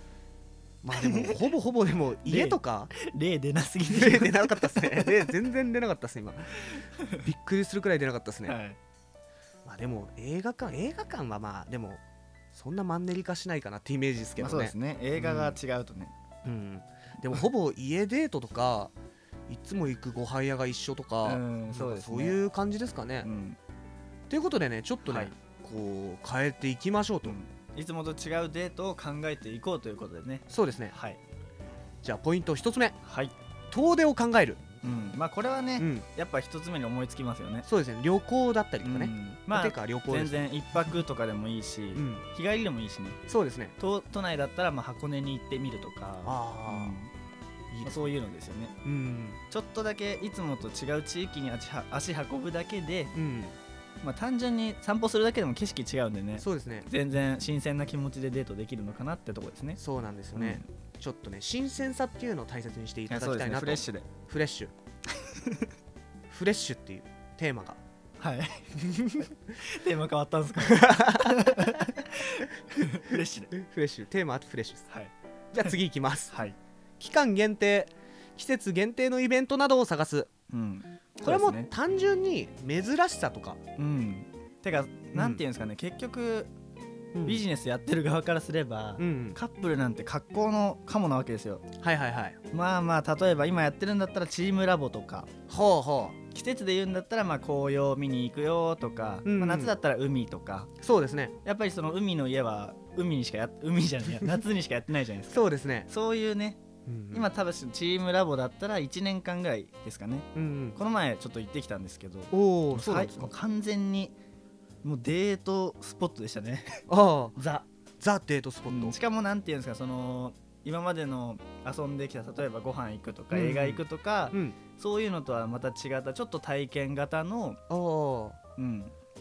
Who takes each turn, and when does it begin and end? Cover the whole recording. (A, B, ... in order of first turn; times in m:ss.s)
0:00.8-0:02.9 A
0:01.0-0:01.5 B
0:02.2-0:05.3 B
0:03.9-0:08.6 A
0:08.4-0:08.8 B
0:09.6-0:12.0 A
0:12.5-0:15.6 A
0:14.4-0:16.1 B
0:16.4-0:18.9 A
0:19.5-0:23.3 A
0:21.2-0:22.4 B
0:23.2-0:23.6 B
0:24.3-0:27.4 A
0:25.0-0:25.4 B
0:27.2-0:31.2 B
0:30.5-0:31.0 A
0:32.0-0:33.0 A
0:33.0-0:33.3 B
0:33.7-0:34.7 A
0:34.8-0:37.7 B
0:35.8-0:36.1 A
0:37.6-0:40.4 A
0:38.8-0:43.2 B
0:42.0-0:42.2 A
0:43.3-0:43.8 A
0:43.8-0:47.1 B
0:46.2-0:47.0 A
0:47.7-0:48.1 A
0:47.8-0:48.8 B
0:48.8-0:49.4 A
0:49.5-0:53.2 B
0:53.1-0:53.6 A
0:54.0-0:59.8 B
0:56.4-0:56.9 A
0:59.8-1:04.7 A
1:00.4-1:00.7 B
1:03.1-1:04.1 B
1:05.2-1:05.7 B
1:06.3-1:07.8 A
1:08.2-1:13.5 B
1:10.6-1:11.8 A
1:13.1-1:14.9 A
1:14.9-1:15.7 B
1:15.5-1:16.4 A
1:16.3-1:16.6 B
1:17.0-1:20.3 A
1:20.5-1:21.7 B
1:21.2-1:23.6 A
1:23.8-1:26.5 B
1:25.1-1:25.4 A
1:27.1-1:27.4 A
1:27.2-1:31.7 B
1:29.0-1:29.4 A
1:31.8-1:32.4 A
1:32.5-1:35.3 B
1:35.5-1:36.2 A
1:36.3-1:40.7 B
1:39.2-1:39.8 A
1:40.8-1:41.4 A
1:41.4-1:46.6 B
1:45.3-1:45.9 A
1:46.9-1:47.3 A
1:47.1-1:54.2 B
1:50.4-1:50.8 A
1:52.3-1:53.3 A
1:54.8-1:56.8 B
1:56.9-1:57.4 A
1:57.4-1:57.7 B
1:58.0-1:59.0 A
1:58.7-2:07.6 B
2:03.3-2:04.6 A
2:07.7-2:08.4 A
2:08.6-2:08.9 B